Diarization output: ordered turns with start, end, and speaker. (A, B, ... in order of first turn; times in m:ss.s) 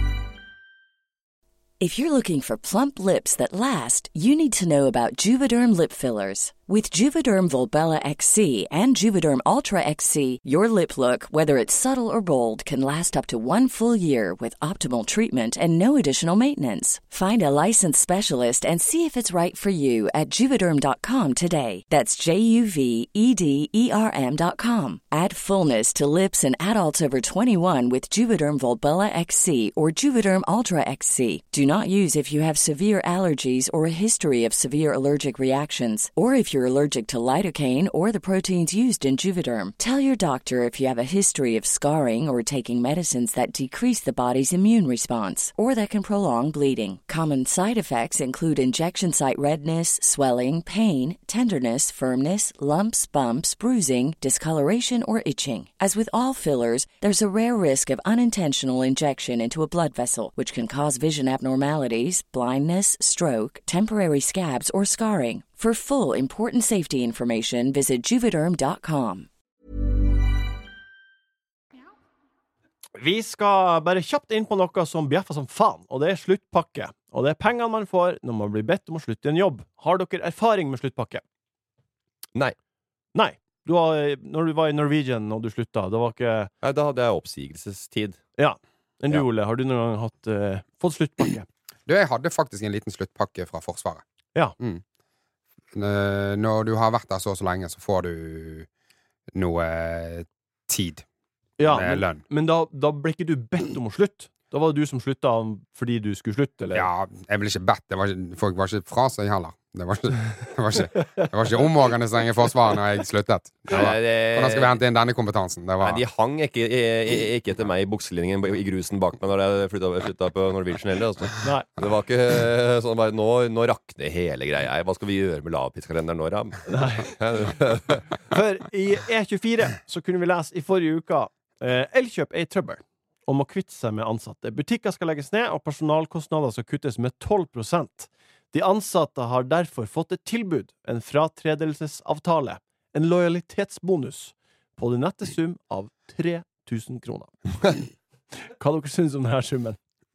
0:01.8-1:09.3 A
1:13.0-1:21.2 B
1:23.2-1:26.5 B
1:26.6-1:28.2 C
1:28.4-1:31.5 B
1:31.9-1:34.0 D
1:35.7-1:38.7 D
1:39.3-1:41.1 D
1:41.6-1:46.9 B
1:41.6-1:42.2 D
1:46.7-1:56.0 D
1:53.7-1:54.8 C
1:55.8-2:08.1 C
2:06.7-2:07.1 B
2:08.3-2:27.4 B
2:28.6-2:29.8 B